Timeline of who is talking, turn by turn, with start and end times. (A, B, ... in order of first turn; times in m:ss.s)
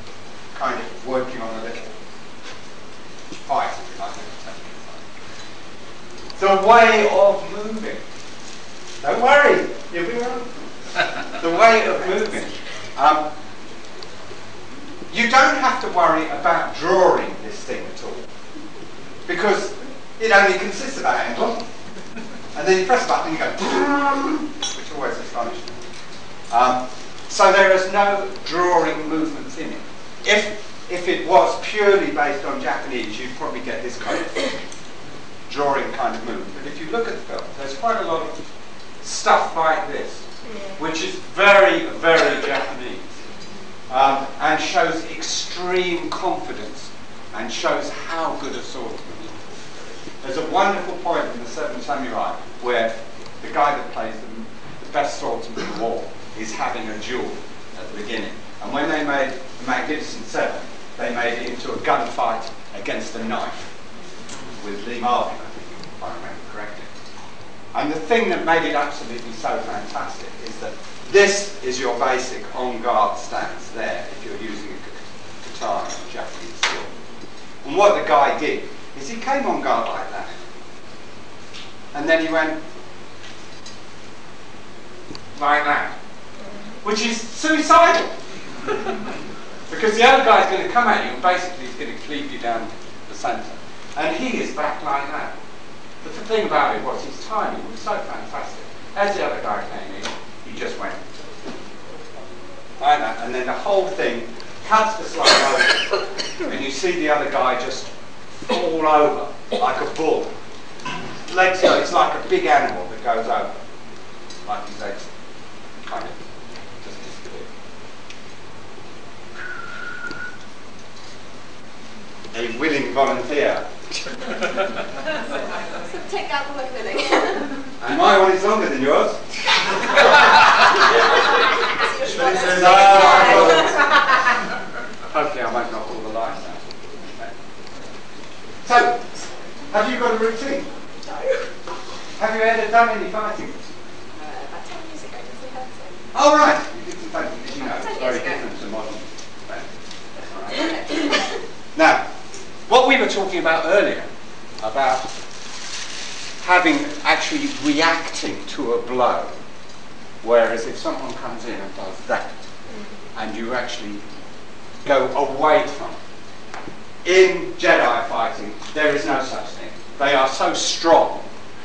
0:00.5-0:01.9 A
0:03.4-0:04.9 A
0:06.4-0:08.0 A
0:09.0-0:13.3 A
0:15.1-0:18.3 A
0:19.3-0:21.6 A
0:22.5-0:25.8 A
0:26.5-0:34.5 A
0:35.5-0:38.4 A
0:39.0-0:43.1 A
0:43.9-0:49.5 A
0:50.2-1:03.7 A
1:04.6-1:06.9 A
1:07.7-1:16.9 A
1:17.6-1:20.3 A
1:21.9-1:22.6 A
1:25.3-1:26.0 A
1:26.8-1:28.2 A
1:29.7-1:35.3 A
1:36.0-1:41.0 A
1:42.8-1:47.9 A
1:48.4-1:50.3 A
1:51.3-1:53.5 A
1:54.4-1:55.1 A
1:55.9-1:56.2 A
1:56.8-1:57.5 A
2:02.3-2:03.7 A
2:05.7-2:07.6 B
2:07.8-2:09.2 A
2:11.6-2:14.0 B
2:12.1-2:14.0 A
2:15.1-2:17.3 A
2:18.6-2:19.0 A
2:19.7-2:20.7 A
2:21.0-2:21.5 B
2:22.2-2:23.6 A
2:24.1-2:26.0 B
2:26.1-2:31.0 A
2:27.6-2:28.4 B
2:30.6-2:31.4 B
2:31.8-2:32.0 A
2:32.7-2:34.1 A
2:34.6-2:35.1 A
2:36.4-2:39.3 A
2:40.2-2:42.4 A
2:42.7-2:43.0 B
2:43.2-2:44.0 A
2:44.8-2:46.0 A
2:47.0-2:51.3 A